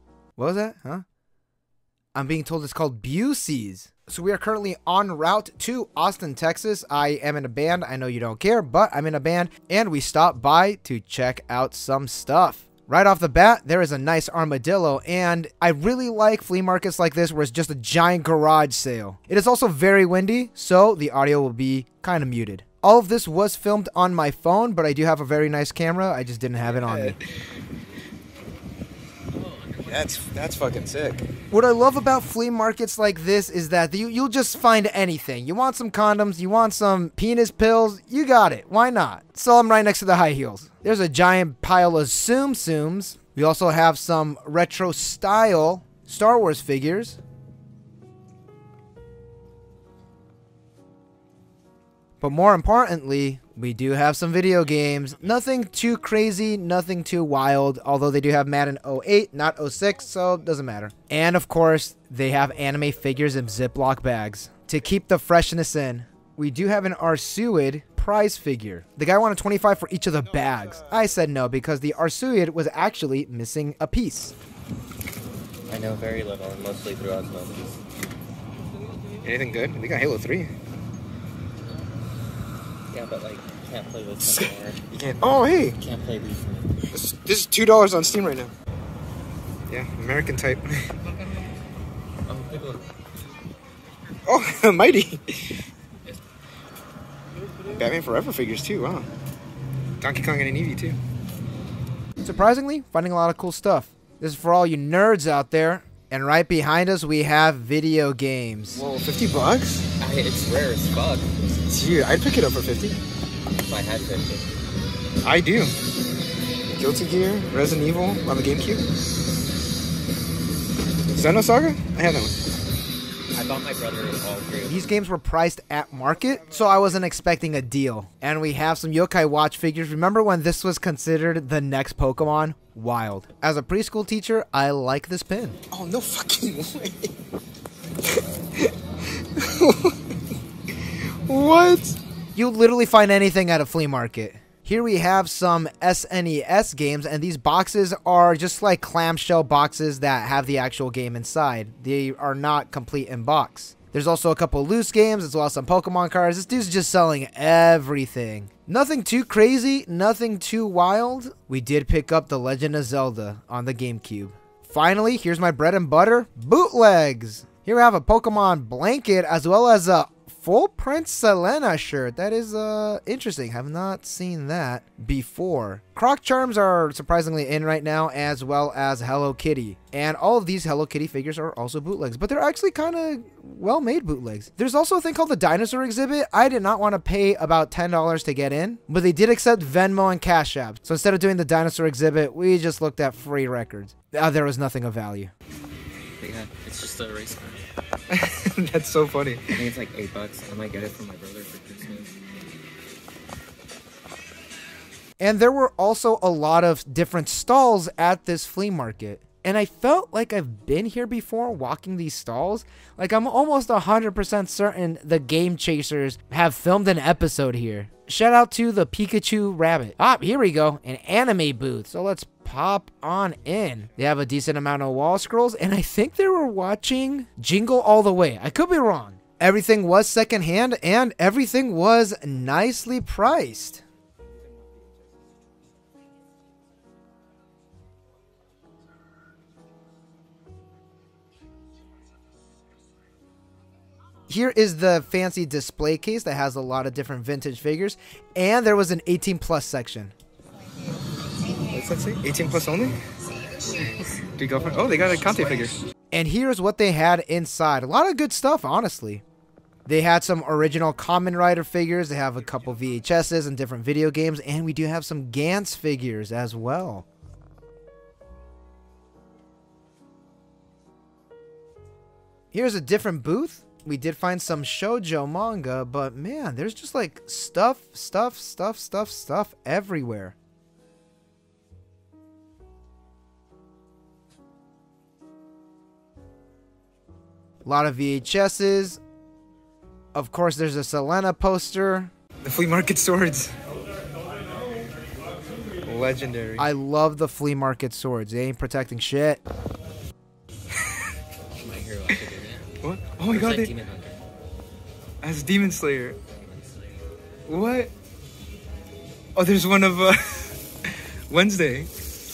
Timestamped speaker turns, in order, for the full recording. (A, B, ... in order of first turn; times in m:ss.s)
0:00.4-0:01.0 A
0:02.1-0:27.2 A
0:26.6-0:27.2 B
0:29.5-0:30.0 C
0:29.8-0:31.2 B
0:31.5-0:47.2 A
0:52.2-1:14.3 A
1:15.7-1:17.8 C
1:19.2-1:20.5 B
1:22.9-1:24.8 C
1:24.2-1:25.8 B
1:25.8-1:26.8 C
1:26.9-1:28.5 B
1:29.7-1:30.9 B
1:32.3-1:32.8 C
1:34.2-1:35.6 B
1:37.8-1:39.1 B
1:40.0-1:41.0 B
1:42.2-1:48.8 A
1:48.7-1:49.9 B
1:50.0-1:51.6 C
1:51.7-1:53.0 B
1:53.6-1:54.5 C
1:55.2-1:55.7 B
1:56.7-1:58.8 B
2:01.1-2:02.4 B
2:03.3-2:04.8 C
2:04.6-2:15.6 A
2:15.7-2:17.1 B
2:18.0-2:18.7 B
2:19.3-2:20.0 B
2:21.1-2:22.0 B
2:22.3-3:15.3 A
3:16.2-3:17.6 C
3:18.1-3:19.6 B
3:19.5-3:22.2 C
3:25.2-3:53.8 A
4:04.3-4:10.1 A
4:11.7-4:13.0 B
4:14.2-4:15.8 B
4:16.1-4:19.2 A
4:19.8-4:27.0 A
4:32.5-4:40.3 A
4:47.6-4:49.0 A
4:50.1-4:52.1 A
4:52.4-4:53.5 B
4:55.8-4:56.7 B
4:56.6-4:59.4 A
5:01.6-5:04.2 C
5:02.8-5:03.7 B
5:05.2-5:06.2 B
5:07.5-5:07.9 B
5:09.3-5:11.9 B